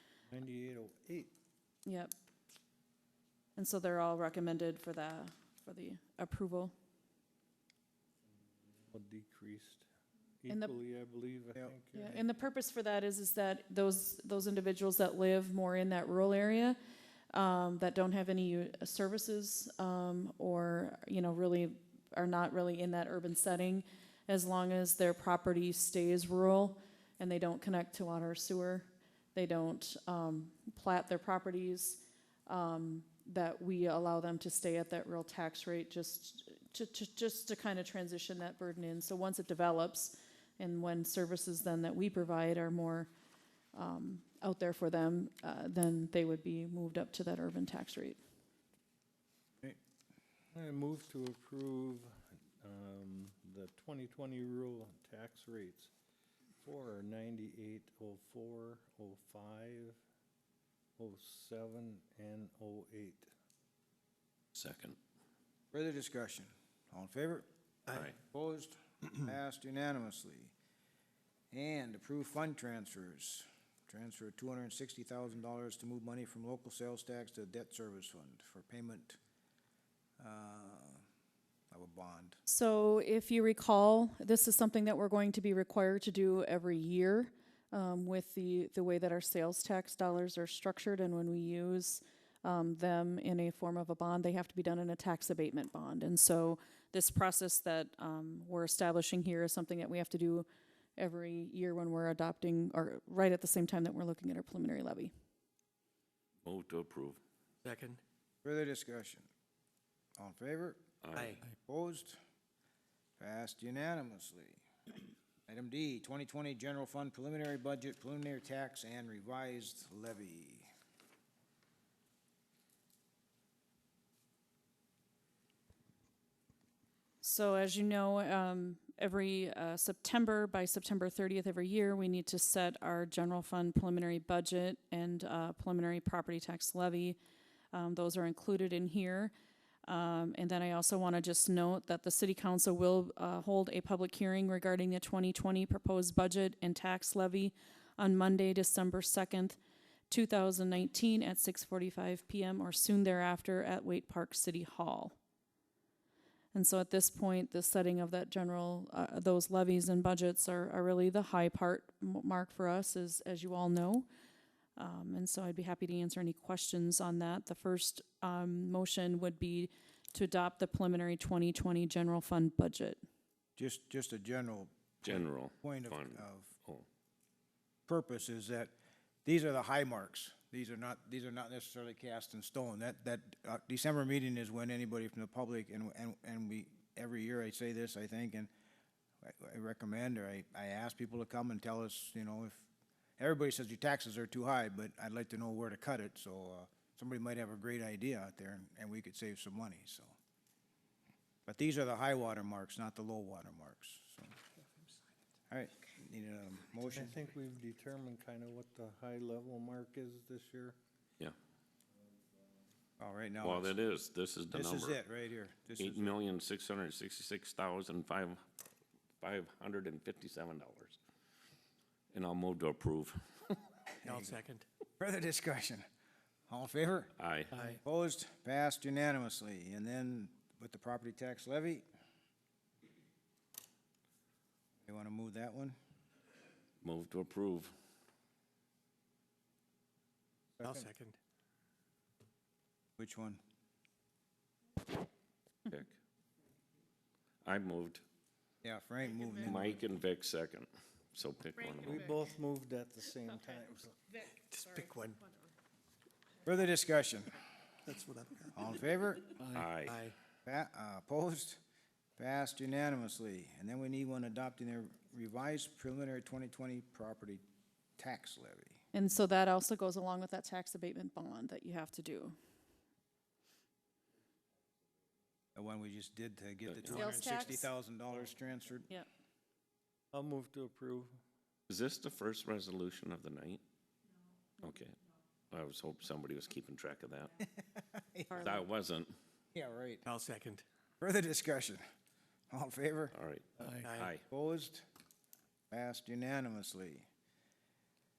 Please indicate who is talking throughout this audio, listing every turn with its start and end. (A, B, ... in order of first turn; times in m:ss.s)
0:00.3-0:01.3 A
0:01.8-0:02.1 B
0:03.6-0:06.7 B
0:08.9-0:09.9 A
0:10.4-0:12.3 A
0:10.5-0:10.7 B
0:11.9-0:16.8 B
0:17.3-0:43.1 B
0:43.7-0:48.2 B
0:50.5-0:55.9 A
0:56.6-1:00.0 A
1:01.0-1:03.3 A
1:04.5-1:05.0 C
1:05.7-1:07.5 D
1:07.9-1:08.2 C
1:08.3-1:10.5 D
1:11.5-1:19.2 D
1:20.2-1:21.0 D
1:21.7-1:22.4 D
1:22.5-1:45.1 B
1:46.4-1:47.2 C
1:47.6-1:48.0 E
1:48.4-1:49.3 D
1:50.2-1:50.8 D
1:51.0-1:51.4 C
1:51.2-1:51.4 E
1:51.7-1:52.2 D
1:53.2-1:54.6 D
1:55.5-2:00.7 D
2:07.2-2:17.2 B
2:17.7-2:19.3 B
2:19.8-2:29.6 B
2:30.1-2:35.2 B
2:36.5-2:44.1 B
2:44.8-2:53.0 B
2:53.6-2:56.5 D
2:55.0-2:56.8 C
2:57.9-2:58.7 D
2:59.2-3:08.5 D
3:09.2-3:20.1 D
3:21.5-3:24.3 D
3:25.5-3:27.1 D
3:26.9-3:30.8 A
3:33.0-3:33.8 D
3:33.4-3:35.0 C
3:34.5-3:36.2 D
3:35.8-3:38.4 C
3:39.2-3:41.0 C
3:42.1-3:43.6 C
3:44.0-3:44.4 D
3:44.0-3:44.6 E
3:45.0-3:45.8 D
3:46.5-3:47.1 D
3:47.2-3:47.5 C
3:47.5-3:47.8 E
3:47.8-3:51.8 D
3:54.8-3:55.8 D
3:56.8-3:57.7 C
4:00.6-4:01.2 E
4:03.0-4:03.4 D
4:05.7-4:06.0 C
4:07.4-4:08.0 C
4:08.6-4:09.8 D
4:09.4-4:12.1 C
4:11.8-4:14.9 A
4:16.4-4:17.4 D
4:17.9-4:18.3 E
4:18.5-4:19.4 D
4:19.5-4:20.0 C
4:19.6-4:20.1 E
4:20.4-4:21.6 D
4:22.2-4:27.4 D
4:28.0-4:28.8 D
4:28.9-4:32.3 B
4:35.5-4:38.9 D
4:36.7-4:37.1 C
4:36.9-4:37.7 B
4:40.1-4:41.1 A
4:41.7-4:43.6 C
4:44.6-4:45.0 C
4:45.5-4:47.4 C
4:47.8-4:48.4 D
4:48.3-4:48.6 B
4:48.3-4:49.1 C
4:49.5-4:50.0 D
4:50.0-4:50.6 E
4:51.0-4:51.8 D
4:52.5-4:53.1 D
4:53.1-4:54.2 C
4:53.6-4:54.1 E
4:54.3-4:54.8 D
4:55.7-4:57.1 D